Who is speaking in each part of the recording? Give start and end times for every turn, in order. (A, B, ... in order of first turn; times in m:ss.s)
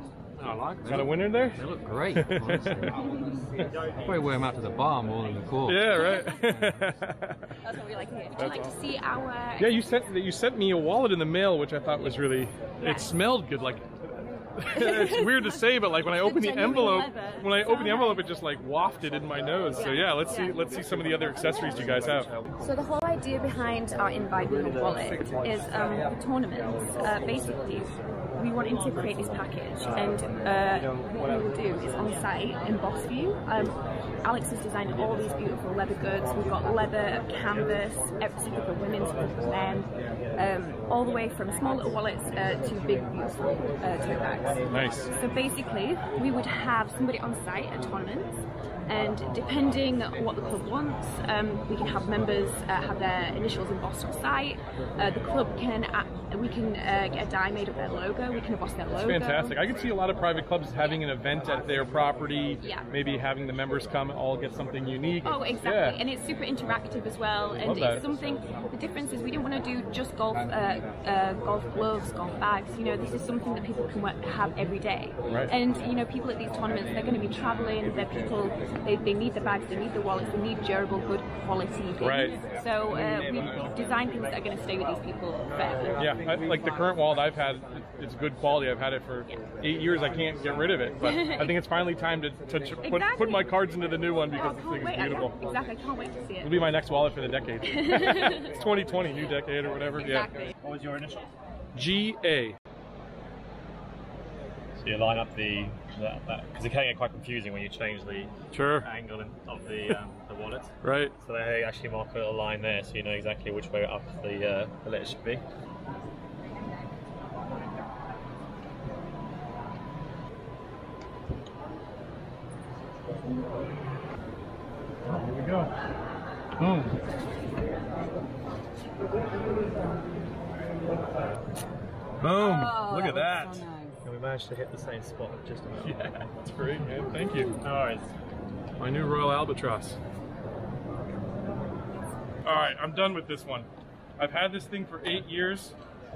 0:00.4-0:03.0 A
0:00.8-0:01.6 B
0:02.1-0:02.9 B
0:04.0-0:06.1 A
0:05.6-0:07.4 B
0:06.0-0:06.3 C
0:07.6-0:09.9 C
0:08.4-0:08.7 B
0:09.6-0:22.3 B
0:12.8-0:13.1 C
0:14.7-0:18.2 C
0:19.8-0:20.6 C
0:22.6-0:59.7 C
0:44.7-0:45.1 B
0:59.0-1:06.0 B
1:02.6-1:02.9 C
1:05.2-1:26.2 C
1:07.6-1:08.0 B
1:15.3-1:15.5 B
1:22.0-1:22.4 B
1:26.0-1:35.3 B
1:31.0-1:31.6 C
1:32.8-1:33.5 C
1:34.3-1:36.7 C
1:36.4-1:40.3 B
1:37.8-1:38.4 C
1:40.0-1:40.5 C
1:40.6-1:41.3 D
1:41.7-1:42.6 B
1:44.8-1:55.4 D
1:48.5-1:48.9 B
1:50.8-1:51.1 B
2:05.1-2:05.7 B
2:06.6-2:06.9 B
2:12.2-2:13.6 B
2:12.3-2:16.3 D
2:15.8-2:17.6 B
2:17.6-2:18.1 D
2:18.8-2:20.0 B
2:22.4-2:23.7 B
2:24.2-2:25.8 B